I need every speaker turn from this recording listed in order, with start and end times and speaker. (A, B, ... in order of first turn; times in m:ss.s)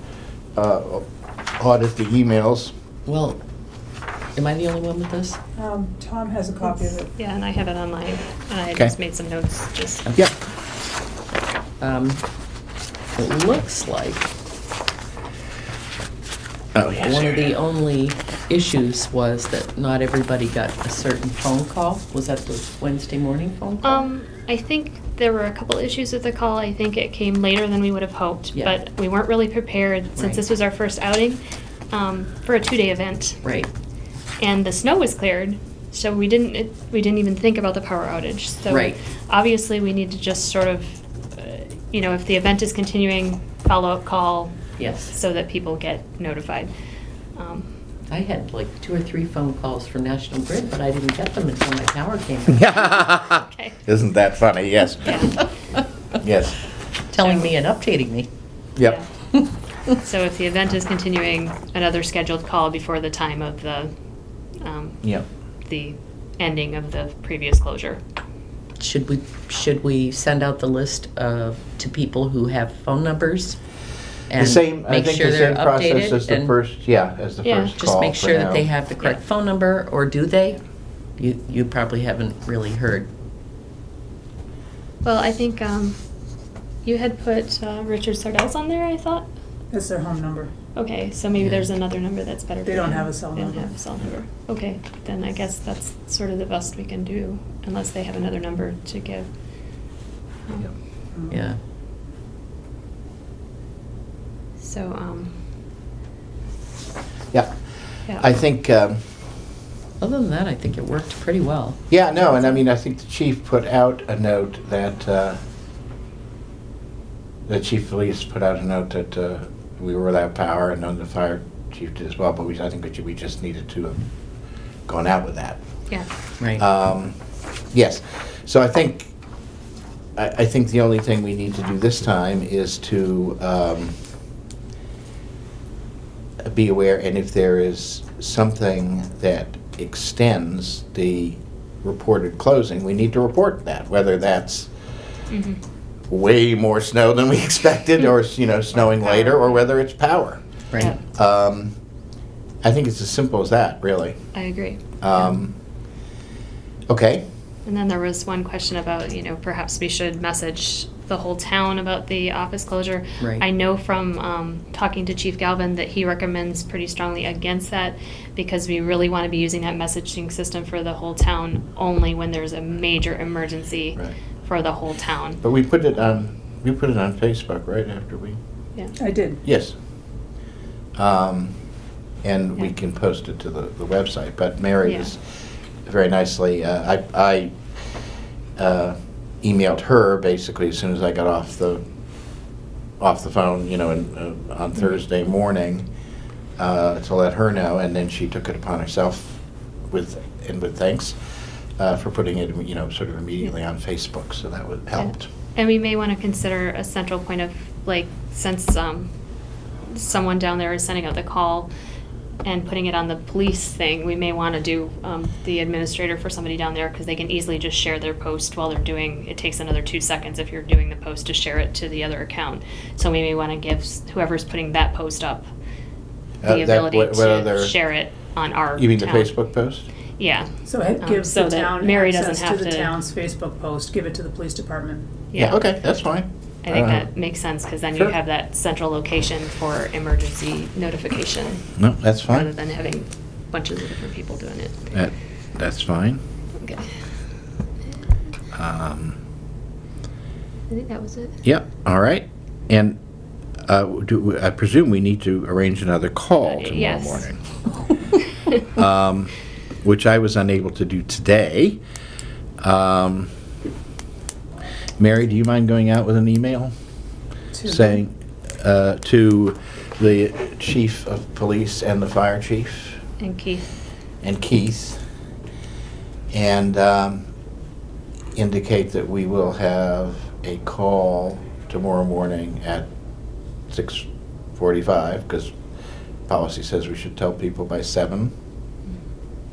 0:00.6-0:02.7 A
0:03.1-0:03.4 B
0:04.4-0:05.4 B
0:05.6-0:07.1 C
0:06.6-0:10.1 D
0:11.8-0:12.2 B
0:13.2-0:14.3 B
0:16.8-0:17.5 A
0:17.0-0:24.0 B
0:23.8-0:31.4 D
0:30.2-0:30.4 B
0:31.9-0:33.4 D
0:33.4-0:33.7 B
0:34.4-0:44.5 D
0:38.7-0:39.0 B
0:44.8-0:45.2 B
0:45.1-0:46.7 D
0:47.4-0:47.7 D
0:48.1-0:52.7 B
0:52.5-0:55.3 A
0:55.1-0:55.3 D
0:56.2-0:56.6 A
0:57.1-0:58.3 B
0:57.2-0:57.5 D
0:58.8-0:59.0 A
0:59.9-1:03.9 D
1:04.6-1:05.0 D
1:05.7-1:08.0 D
1:08.8-1:13.6 B
1:14.3-1:16.6 B
1:14.4-1:18.7 A
1:17.4-1:17.8 D
1:17.8-1:20.6 B
1:21.2-1:23.1 B
1:25.0-1:26.0 D
1:26.8-1:29.3 D
1:29.7-1:30.5 C
1:30.8-1:39.3 D
1:31.4-1:31.6 B
1:32.6-1:33.7 C
1:41.1-1:41.4 C
1:41.3-1:41.6 B
1:44.6-1:45.4 D
1:48.2-1:49.0 A
1:50.0-1:51.8 B
1:51.9-1:55.4 A
1:57.5-2:04.0 A
2:04.9-2:05.6 A
2:06.6-2:07.2 A
2:07.7-2:09.1 A
2:10.2-2:14.0 A
2:16.4-2:24.7 A
2:25.3-2:25.6 D
2:26.1-2:31.8 A
2:29.0-2:29.6 D
2:32.6-2:34.2 A
2:34.4-2:34.8 D
2:35.0-2:35.6 A
2:36.9-2:37.2 A
2:37.7-2:55.4 D
2:55.4-2:58.4 A
2:59.0-2:59.4 C
2:59.4-2:59.8 A
3:01.0-3:01.6 A
3:02.2-3:05.2 A
3:04.8-3:05.1 D
3:05.8-3:07.6 A
3:08.6-3:11.8 A
3:13.0-3:15.9 A
3:16.6-3:21.2 A
3:21.8-3:25.3 A
3:25.0-3:29.1 D
3:29.9-3:31.7 D
3:32.4-3:45.5 D
3:46.4-3:47.8 A
3:46.4-3:49.3 D
3:48.8-3:49.9 A
3:50.2-3:52.9 D
3:50.7-3:55.1 C
3:55.3-3:55.6 D
3:55.4-3:57.1 A
3:56.6-4:01.7 D
4:01.8-4:02.5 A
4:02.3-4:04.9 D
4:04.9-4:06.2 A
4:06.6-4:06.9 D
4:08.5-4:09.2 A
4:10.7-4:11.4 D
4:11.4-4:13.0 A
4:13.7-4:17.4 A
4:16.4-4:17.3 D
4:18.7-4:21.8 A
4:22.6-4:23.3 A
4:25.0-4:26.7 A
4:27.5-4:28.0 C
4:27.7-4:33.0 A
4:33.2-4:33.7 D
4:34.2-4:35.0 A
4:36.3-4:37.3 A
4:38.4-4:42.9 A
4:43.7-4:45.6 A
4:46.3-4:48.3 A